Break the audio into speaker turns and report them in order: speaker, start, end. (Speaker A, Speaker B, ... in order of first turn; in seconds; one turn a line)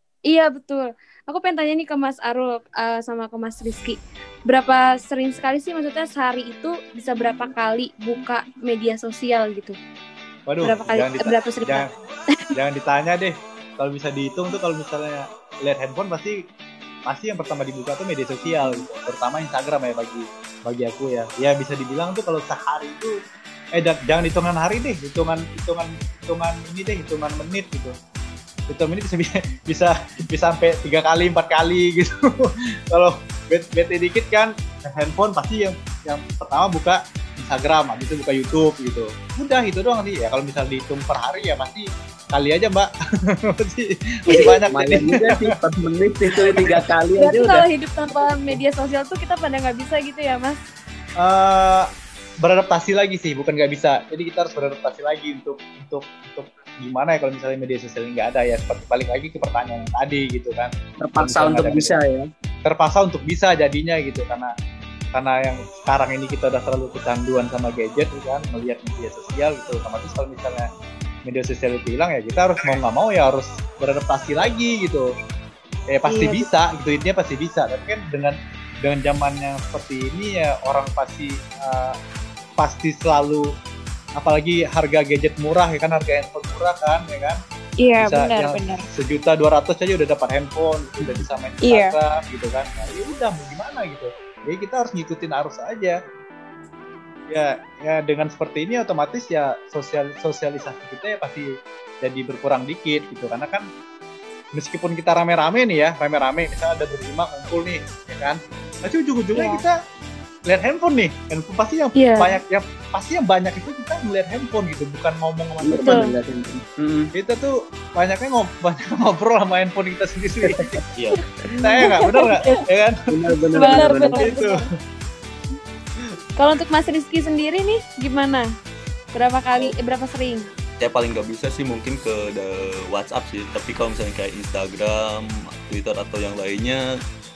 Speaker A: 0.3-9.8
Speaker B: 10.5-11.9
Speaker A: 10.6-11.9
Speaker B: 12.5-16.4
Speaker B: 17.1-23.1
Speaker B: 23.7-27.9
Speaker B: 28.7-45.5
Speaker C: 44.7-47.6
Speaker B: 46.5-46.8
Speaker A: 47.2-50.6
Speaker B: 51.2-51.9
Speaker B: 52.4-62.0
Speaker C: 61.0-62.2
Speaker B: 62.6-64.5
Speaker B: 65.1-70.7
Speaker B: 71.2-75.1
Speaker B: 75.9-82.0
Speaker A: 76.1-76.4
Speaker B: 82.6-83.4
Speaker B: 84.2-87.4
Speaker D: 87.8-88.8
Speaker B: 88.0-96.0
Speaker D: 91.6-91.9
Speaker B: 97.3-103.7
Speaker B: 104.5-109.7
Speaker A: 109.3-109.6
Speaker B: 110.5-116.1
Speaker A: 112.0-112.3
Speaker C: 115.6-117.1
Speaker A: 115.8-116.1
Speaker B: 117.1-120.8
Speaker B: 121.6-123.0
Speaker D: 121.8-122.5
Speaker C: 123.1-124.2
Speaker D: 123.5-124.7
Speaker B: 124.1-124.7
Speaker A: 126.4-128.5
Speaker A: 129.1-130.4
Speaker E: 130.8-136.9